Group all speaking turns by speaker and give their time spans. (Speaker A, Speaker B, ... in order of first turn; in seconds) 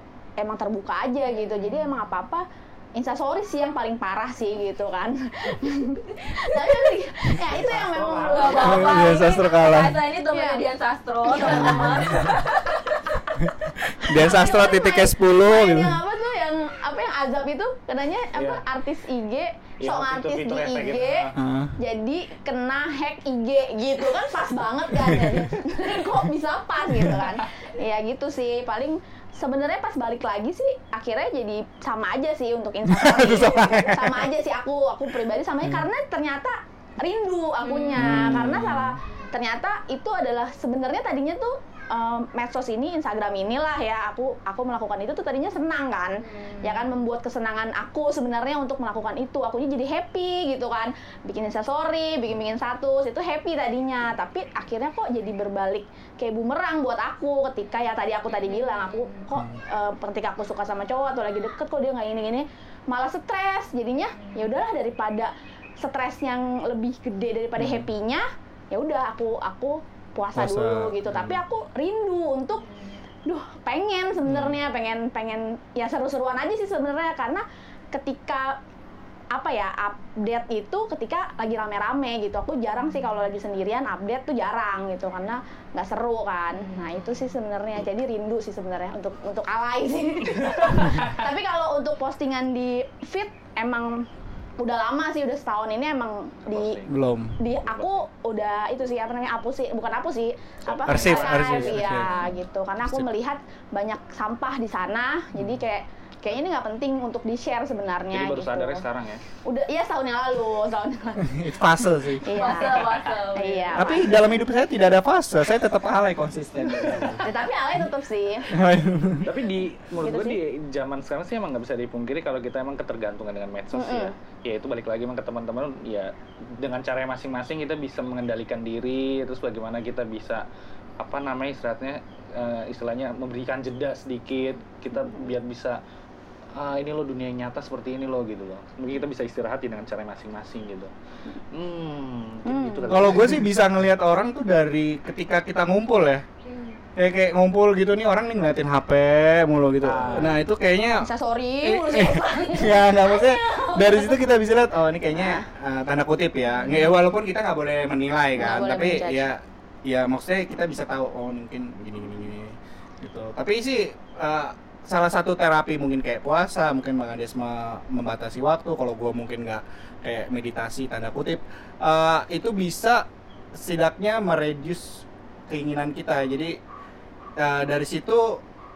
Speaker A: 0.4-9.3, 10.3-10.6, 11.2-12.1, 14.1-72.7, 73.2-78.6, 79.3-94.0, 94.6-96.8, 97.4-108.8, 109.4-111.3, 112.2-114.3, 117.2-118.5, 120.0-120.4, 123.7-124.1, 134.9-135.3, 142.4-143.2, 151.0-154.3, 155.1-155.5, 156.6-156.9, 158.3-159.3
Speaker B: 1.3-2.0, 6.3-6.8, 8.2-13.4, 37.6-38.1, 39.0-39.3, 46.2-47.0, 58.3-59.3, 64.1-64.5, 72.6-73.0, 86.5-87.2, 112.3-113.9, 146.4-146.8
Speaker C: 7.4-8.9, 18.3-18.6, 19.8-21.4, 90.4-91.2, 96.5-98.0, 100.7-102.2, 108.1-109.2, 116.7-117.2, 119.2-130.4, 131.0-135.8, 136.5-143.5, 149.8-150.4
Speaker D: 8.6-9.9, 11.4-12.3, 13.4-15.9, 21.4-21.7, 25.0-25.4, 32.9-34.3, 38.0-39.0, 59.3-59.6, 67.6-67.9, 70.3-71.4, 74.2-74.6, 96.9-97.3, 100.8-102.1, 105.3-105.6, 111.2-112.3, 113.7-117.2, 118.5-119.3, 142.9-146.2, 146.9-151.1, 151.6-173.1, 173.6-176.6, 177.4-178.4